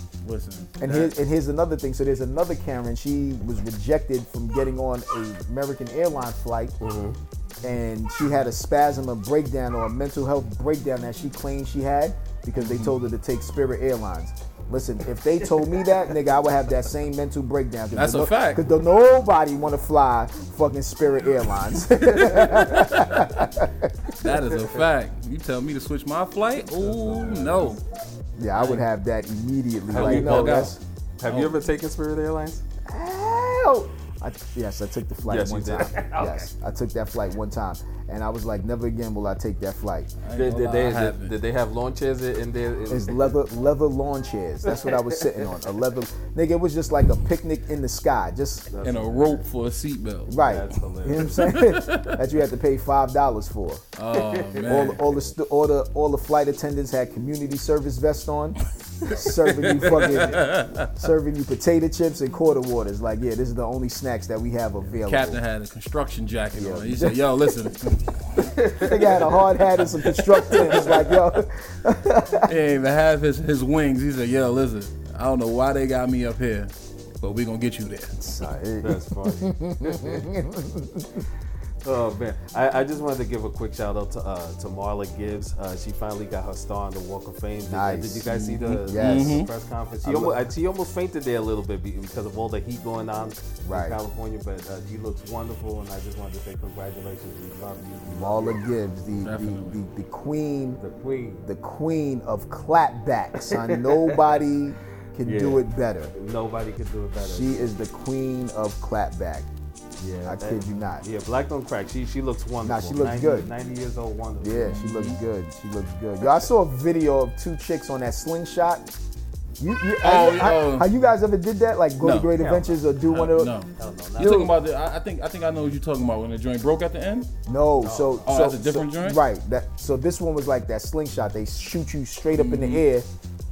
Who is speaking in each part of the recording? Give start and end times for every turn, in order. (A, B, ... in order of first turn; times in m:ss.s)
0:00.2-0:01.1 A
0:00.8-0:06.7 B
0:06.8-0:07.2 C
0:07.6-0:24.2 B
0:12.6-0:12.9 A
0:15.6-0:15.9 C
0:17.9-0:18.7 A
0:21.9-0:23.3 A
0:24.2-0:27.8 A
0:26.8-0:27.8 C
0:28.4-0:30.8 B
0:28.6-0:28.8 A
0:29.9-0:32.6 C
0:29.9-0:31.6 A
0:32.9-0:40.1 B
0:35.2-0:36.5 C
0:40.2-0:41.3 A
0:40.4-0:43.3 C
0:42.9-0:48.7 B
0:44.7-0:45.6 C
0:48.7-0:49.4 C
0:48.8-0:50.4 A
0:50.3-0:53.8 B
0:50.3-0:51.5 C
0:51.3-0:52.2 A
0:53.9-0:55.0 A
0:54.1-0:54.7 C
0:54.6-1:05.4 B
0:59.2-1:00.9 A
1:05.0-1:08.6 A
1:06.5-1:07.2 B
1:08.4-1:09.4 C
1:08.7-1:12.5 B
1:09.9-1:11.3 A
1:12.4-1:18.5 A
1:18.2-1:21.2 B
1:18.8-1:20.2 C
1:21.8-1:38.6 C
1:27.6-1:29.4 B
1:28.2-1:29.5 A
1:30.0-1:30.4 B
1:33.6-1:34.0 B
1:38.1-1:40.8 B
1:39.2-1:39.8 A
1:40.8-1:41.4 C
1:41.4-1:46.1 B
1:43.4-1:44.3 C
1:45.2-1:47.7 C
1:47.2-1:49.5 B
1:50.0-1:54.7 C
1:50.2-1:51.0 B
1:52.6-1:53.5 B
1:54.4-1:58.9 B
1:54.6-1:55.2 A
1:59.6-2:03.5 B
2:00.0-2:00.9 A
2:02.0-2:02.3 A
2:02.3-2:04.5 C
2:03.2-2:07.3 A
2:04.2-2:04.5 B
2:07.5-2:13.0 B
2:07.8-2:08.3 C
2:08.2-2:09.2 A
2:12.3-2:12.8 A